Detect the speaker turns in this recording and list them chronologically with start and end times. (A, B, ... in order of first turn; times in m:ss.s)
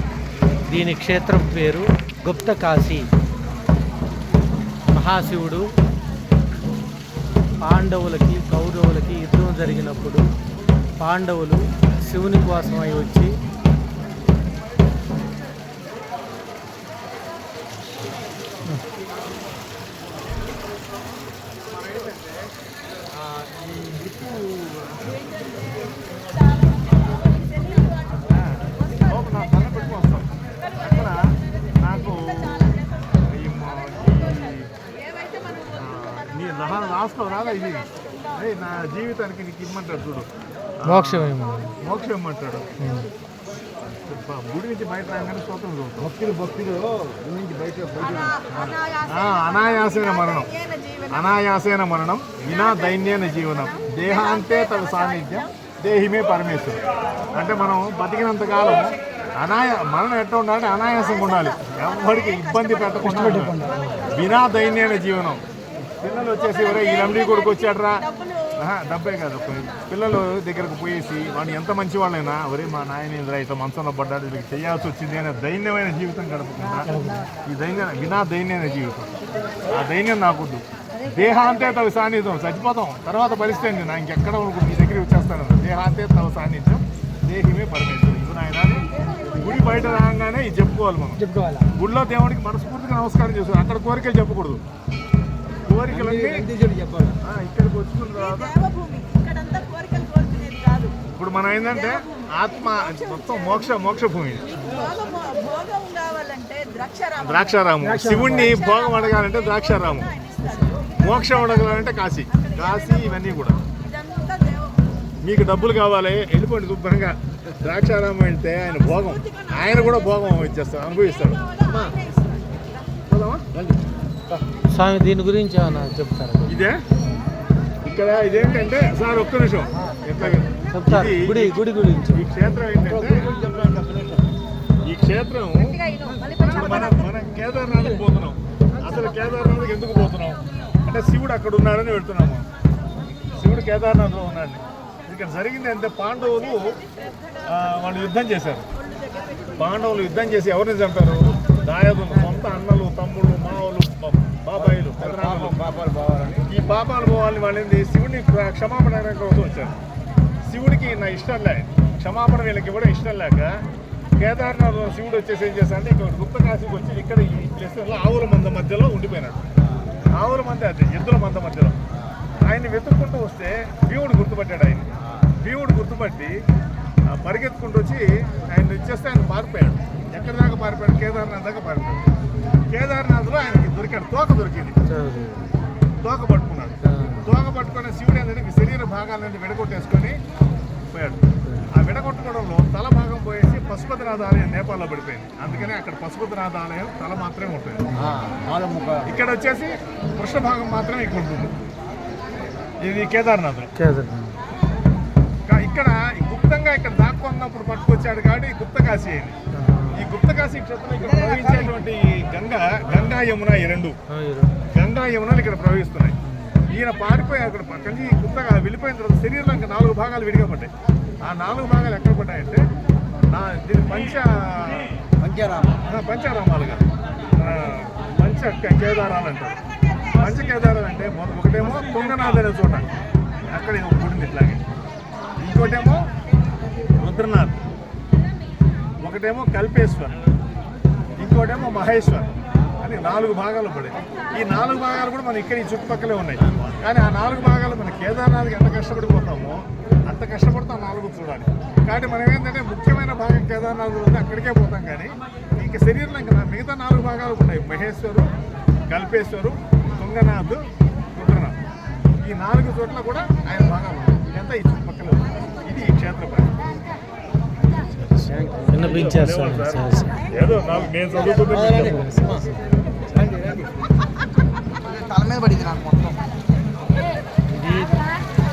0:00.7-0:03.1 A
0:04.9-0:05.7 A
0:07.6-0:10.2 A
0:11.0-0:13.3 A
0:23.2-0:25.3 B
0:28.2-0:34.7 B
0:35.7-0:40.3 B
0:40.8-0:42.7 B
0:40.8-0:41.7 A
0:42.8-0:43.1 A
0:43.9-0:46.1 B
0:46.0-0:48.5 C
0:48.5-0:50.6 B
0:50.7-0:51.0 D
0:51.1-0:56.8 B
0:57.3-1:05.4 B
1:03.2-1:03.7 A
1:06.0-1:34.6 B
1:16.8-1:17.3 A
1:31.3-1:31.6 A
1:35.7-1:36.5 B
1:35.9-1:37.2 C
1:37.2-1:38.6 B
1:38.6-1:40.9 D
1:41.0-1:44.7 B
1:44.7-1:47.1 D
1:47.2-1:50.2 B
1:47.8-1:48.4 A
1:50.2-1:50.9 D
1:50.8-1:53.6 B
1:54.0-1:54.7 D
1:55.2-2:01.4 B
2:01.7-2:02.0 C
2:01.9-2:02.3 D
2:03.1-2:03.5 B
2:04.7-2:06.5 A
2:06.5-2:06.8 B
2:07.8-2:13.3 B
2:10.7-2:12.2 A
2:12.8-2:14.2 C
2:14.8-2:15.9 B
2:16.0-2:16.5 C
2:16.4-2:22.5 B
2:23.3-2:26.8 B
2:27.4-2:28.6 B
2:29.6-2:35.6 B
2:34.6-2:36.5 C
2:36.4-2:39.7 B
2:40.4-2:43.6 B
2:44.2-2:49.4 B
2:50.1-2:51.8 B
2:52.4-2:56.4 B
2:57.0-3:02.1 B
3:02.7-3:04.8 B
3:04.8-3:05.5 A
3:06.0-3:10.2 B
3:06.8-3:07.3 A
3:10.9-3:18.0 B
3:11.4-3:11.7 A
3:15.5-3:15.7 A
3:17.9-3:18.2 A
3:17.9-3:19.2 C
3:19.0-3:21.5 B
3:22.8-3:23.7 B
3:23.7-3:24.4 A
3:25.5-3:29.4 B
3:29.5-3:30.0 A
3:29.9-3:34.0 B
3:31.1-3:31.7 C
3:34.1-3:34.5 A
3:34.7-3:42.6 B
3:36.2-3:36.6 A
3:43.3-3:44.9 B
3:45.2-3:45.8 C
3:45.8-3:49.6 B
3:50.1-3:52.9 B
3:53.5-3:54.6 B
3:55.4-3:56.1 B
3:57.0-3:57.6 B
3:59.0-4:00.2 B
4:01.2-4:18.3 B
4:18.9-4:21.6 B
4:22.2-4:26.6 B
4:27.9-4:30.1 A
4:28.3-4:28.8 C
4:28.8-4:32.0 B
4:31.2-4:32.5 C
4:31.5-4:32.5 A
4:33.1-4:33.9 C
4:34.8-4:36.1 C
4:37.5-4:38.0 A